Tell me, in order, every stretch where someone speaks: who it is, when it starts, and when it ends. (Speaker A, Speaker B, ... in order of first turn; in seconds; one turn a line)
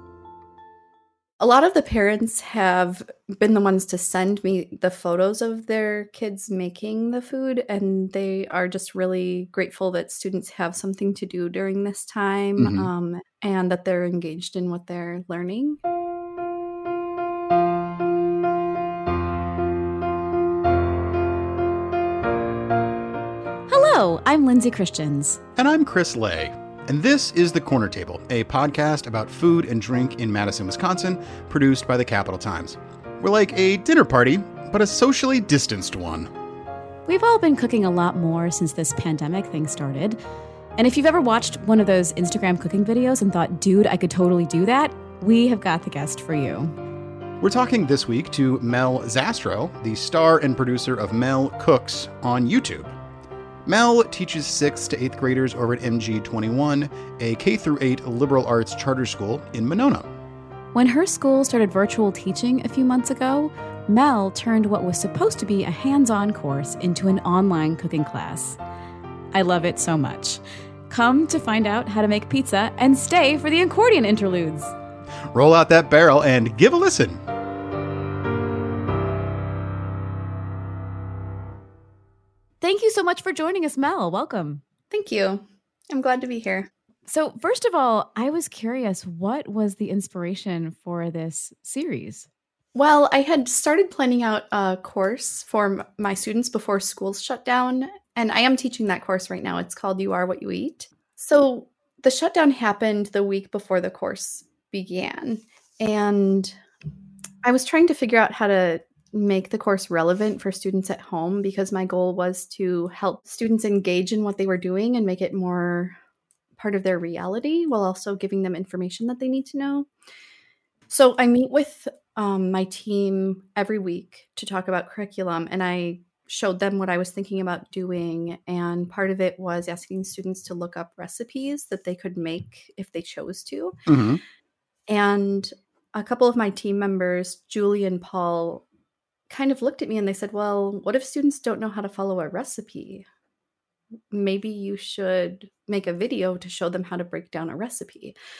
Speaker A: 1.4-15.8
Speaker B: 12.6-12.9
Speaker C: 23.7-25.4
Speaker B: 25.6-36.3
Speaker C: 37.0-40.2
Speaker C: 40.8-46.7
Speaker B: 47.4-52.9
Speaker B: 53.6-60.1
Speaker C: 60.7-68.6
Speaker C: 69.3-74.7
Speaker B: 75.3-77.2
Speaker C: 82.6-84.6
Speaker A: 84.9-86.7
Speaker C: 87.1-92.3
Speaker A: 92.7-106.5
Speaker A: 107.4-115.9
Speaker A: 116.6-119.9
Speaker A: 120.9-133.8
Speaker B: 133.9-134.2
Speaker A: 134.9-138.6
Speaker A: 139.3-143.0
Speaker A: 144.1-148.1